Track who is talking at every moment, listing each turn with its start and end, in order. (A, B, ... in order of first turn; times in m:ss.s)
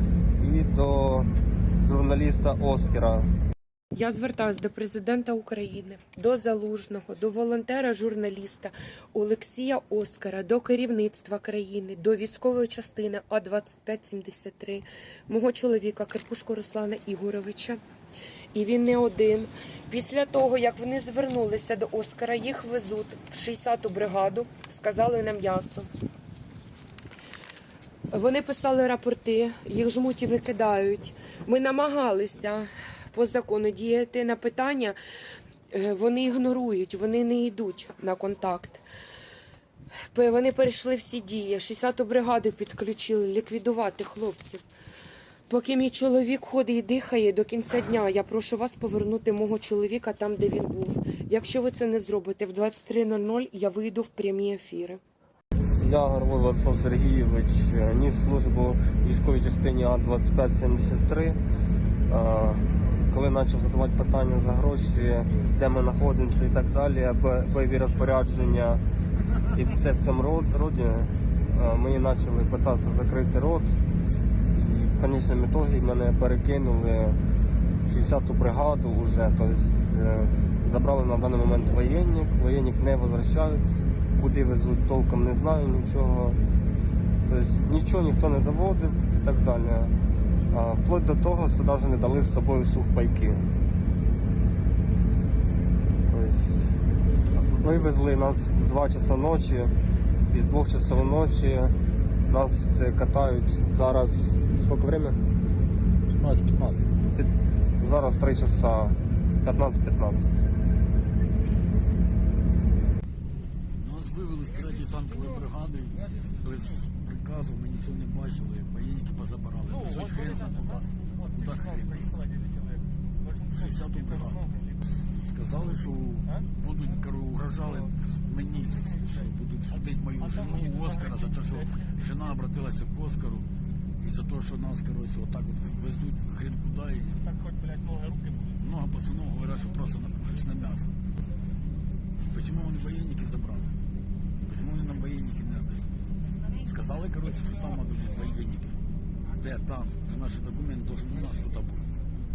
0:00.4-0:01.3 A
0:01.8-0:03.3 A
0:03.9-0:17.8 B
0:18.5-0:25.9 B
0:28.1-0:35.0 B
0:35.7-0:38.8 B
0:40.1-0:44.6 B
0:45.5-0:55.0 B
0:55.8-1:01.4 A
1:02.1-1:08.8 A
1:09.5-1:13.7 A
1:14.5-1:17.2 A
1:17.8-1:26.4 A
1:27.2-1:29.9 A
1:30.5-1:33.4 A
1:36.1-1:36.8 A
1:37.3-1:39.7 A
1:40.3-1:41.7 A
1:42.3-1:45.2 A
1:46.1-1:46.9 C
1:47.8-1:50.3 A
1:53.8-2:02.2 C
1:59.6-2:04.8 D
2:03.5-2:04.4 C
2:05.1-2:13.5 C
2:07.6-2:07.9 D
2:08.7-2:09.1 D
2:10.2-2:11.9 D
2:14.0-2:17.3 C
2:17.2-2:18.6 D
2:18.6-2:20.9 C
2:22.3-2:23.8 C
2:24.4-2:28.8 C
2:29.3-2:31.9 C